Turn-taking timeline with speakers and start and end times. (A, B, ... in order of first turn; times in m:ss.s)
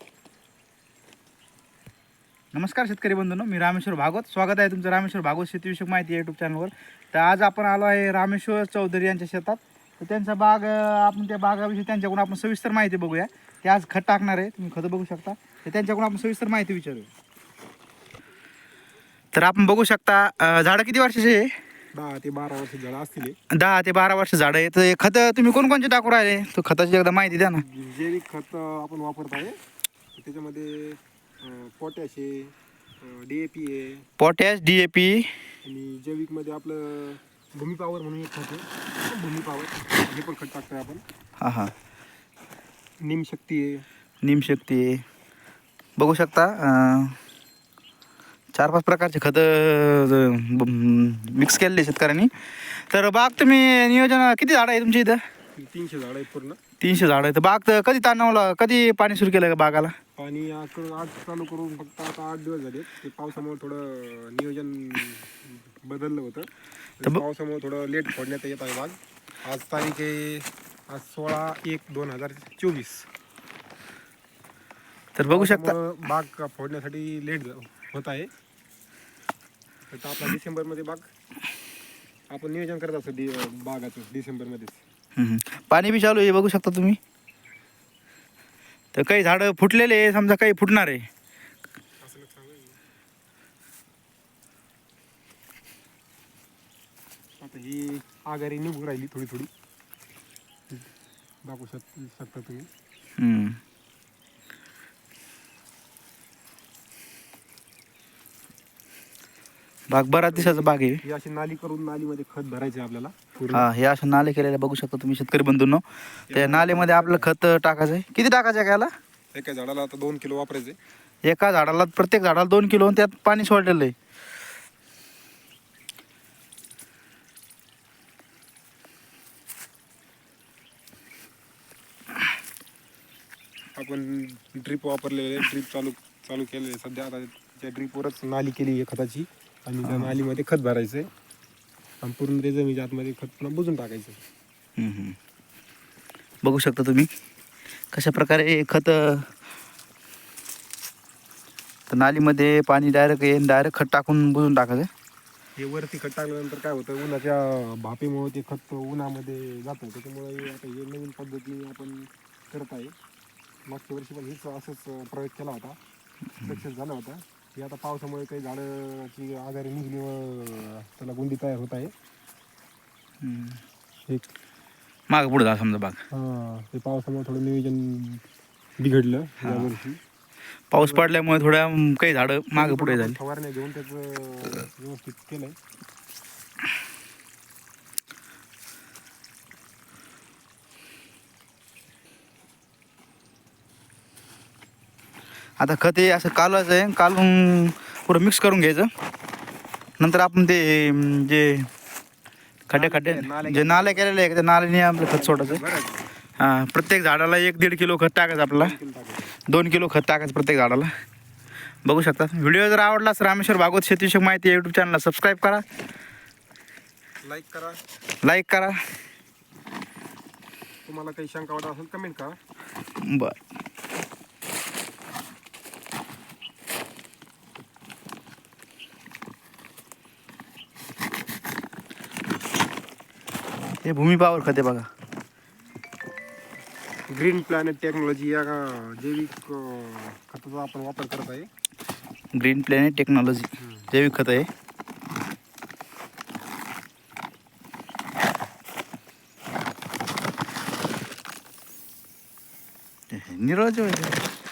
0:02.5-0:17.1 A
0:19.3-0:21.5 A
0:21.9-0:23.4 B
0:23.5-0:27.6 A
0:27.5-0:29.6 B
0:30.2-0:34.1 B
0:34.2-0:35.3 A
0:35.6-0:41.0 B
0:41.4-0:41.7 A
0:43.0-0:43.8 B
0:44.2-0:45.0 A
0:46.0-0:47.2 A
0:48.6-0:55.2 A
0:55.6-0:56.6 B
0:56.8-0:59.9 A
1:00.2-1:13.1 B
1:15.2-1:15.8 A
1:15.3-1:18.3 B
1:19.9-1:21.1 B
1:22.3-1:24.8 B
1:25.2-1:27.0 A
1:28.9-1:31.0 A
1:32.0-1:32.8 B
1:37.4-1:39.5 B
1:41.4-1:42.7 B
1:43.2-1:43.6 A
1:49.9-1:51.0 A
1:50.3-1:53.7 B
1:53.5-1:58.9 A
1:56.3-1:57.3 B
1:59.3-2:00.8 B
2:01.2-2:03.9 A
2:13.8-2:21.1 B
2:19.8-2:20.2 A
2:22.0-2:24.2 B
2:24.8-2:25.2 A
2:26.4-2:27.1 A
2:27.9-2:29.3 A
2:31.9-2:34.9 A
2:35.6-2:43.0 B
2:43.7-2:45.8 B
2:46.4-2:51.9 B
2:53.2-2:53.6 A
2:55.1-2:56.0 A
2:56.1-2:58.2 B
2:58.8-3:00.0 B
2:59.4-2:59.7 A
3:00.7-3:03.2 A
3:00.8-3:01.1 B
3:02.6-3:05.6 B
3:15.6-3:18.9 A
3:20.0-3:21.7 A
3:22.7-3:25.6 A
3:22.7-3:24.1 B
3:25.1-3:26.0 B
3:26.4-3:28.8 A
3:28.5-3:29.3 B
3:29.5-3:30.9 A
3:31.8-3:35.6 A
3:37.2-3:37.8 B
3:38.2-3:38.8 A
3:40.9-3:42.4 B
3:43.0-3:43.4 A
3:53.8-3:54.9 A
3:57.1-4:01.5 B
4:02.3-4:04.5 A
4:13.1-4:14.2 A